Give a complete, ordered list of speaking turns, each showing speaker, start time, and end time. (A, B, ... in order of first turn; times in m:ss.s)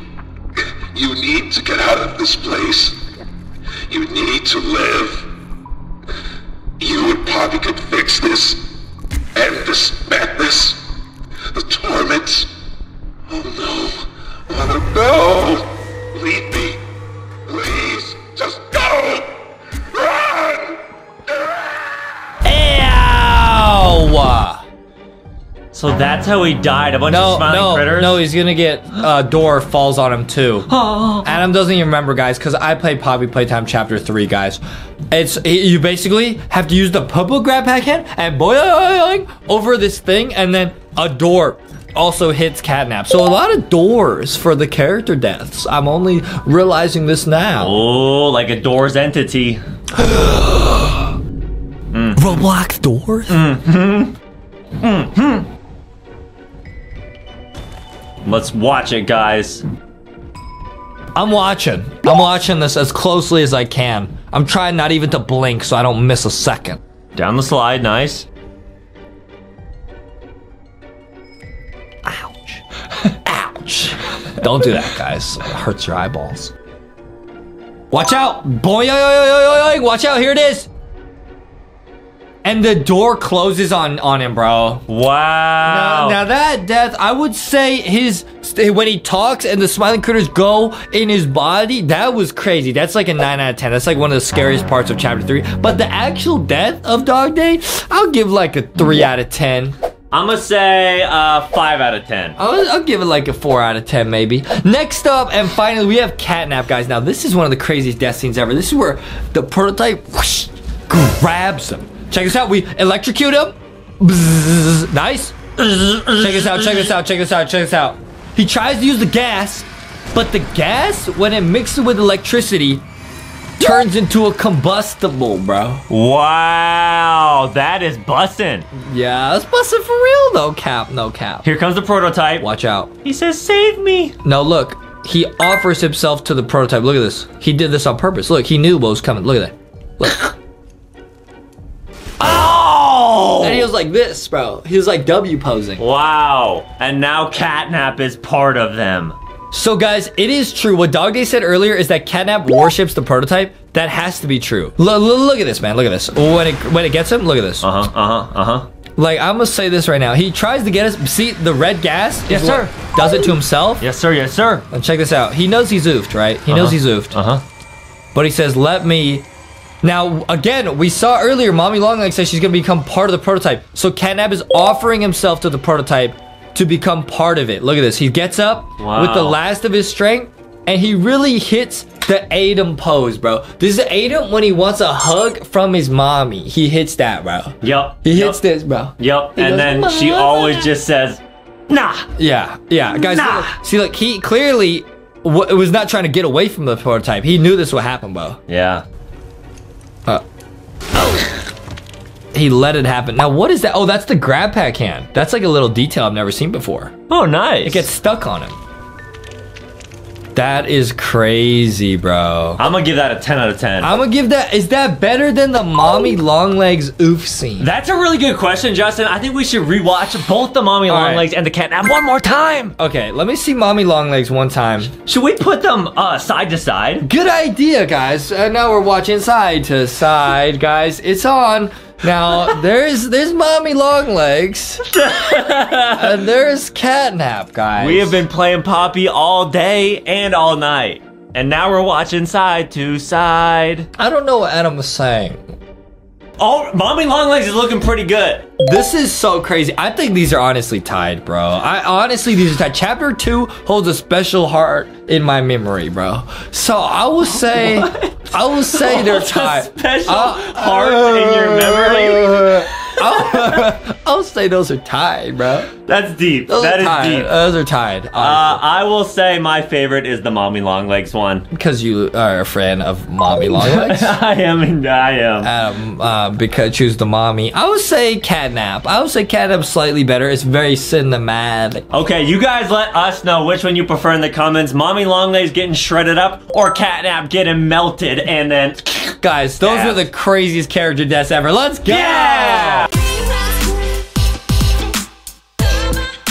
0:00.6-0:03.0 A
0:03.9-0:05.3 A
0:06.8-0:08.7 A
0:09.3-0:10.8 A
0:11.5-0:12.5 A
0:13.3-0:16.8 A
0:17.4-0:19.4 A
0:19.9-0:20.8 A
0:22.4-0:24.6 B
0:25.7-0:28.2 C
0:27.1-0:47.8 B
0:30.7-0:31.4 C
0:47.6-0:49.6 C
0:50.0-0:51.0 B
0:51.9-0:52.4 C
0:52.1-0:53.4 B
0:53.3-0:54.1 C
0:54.8-0:55.5 C
0:58.2-0:59.6 C
1:01.1-1:06.8 B
1:07.1-1:08.2 C
1:12.0-1:16.5 B
1:17.9-1:20.7 B
1:22.4-1:24.8 B
1:24.9-1:26.2 C
1:25.6-1:39.7 B
1:40.1-1:42.3 C
1:42.4-1:55.4 B
1:55.6-1:56.9 C
1:56.1-2:02.8 B
2:03.6-2:05.8 B
2:05.9-2:08.6 C
2:08.7-2:11.5 B
2:11.4-2:12.4 C
2:12.4-2:12.9 B
2:13.0-2:14.1 C
2:14.2-2:20.3 B
2:22.2-2:23.7 C
2:23.4-2:25.8 B
2:25.8-2:29.2 C
2:29.5-2:37.7 B
2:37.6-2:38.7 C
2:39.0-2:43.8 B
2:42.3-2:42.7 C
2:43.8-2:44.6 C
2:44.7-2:47.2 B
2:46.5-2:47.4 C
2:48.1-2:49.2 B
2:49.8-3:10.7 B
2:58.8-2:59.4 C
3:07.6-3:08.4 C
3:09.0-3:12.1 C
3:12.2-3:18.4 B
3:12.9-3:13.5 C
3:18.5-3:18.8 C
3:20.9-3:21.3 B
3:22.3-3:26.9 B
3:27.1-3:27.9 C
3:27.6-3:28.6 B
3:30.3-3:32.6 B
3:32.6-3:33.9 C
3:33.8-3:37.7 B
3:37.6-3:42.7 C
3:40.9-3:41.2 B
3:42.8-3:44.9 B
3:45.0-3:47.0 C
3:47.0-3:55.0 B
3:54.8-3:56.2 C
3:55.9-3:58.2 B
3:57.8-4:03.9 C
4:04.0-4:05.4 B
4:06.4-4:08.5 C
4:08.6-4:25.7 B
4:17.4-4:23.6 C
4:25.8-4:27.3 C
4:26.5-4:28.6 B
4:28.1-4:31.4 C
4:31.5-4:34.1 B
4:33.3-4:35.5 C
4:35.4-4:41.8 B
4:41.9-4:50.1 C
4:49.2-4:52.9 B
4:51.8-4:52.9 C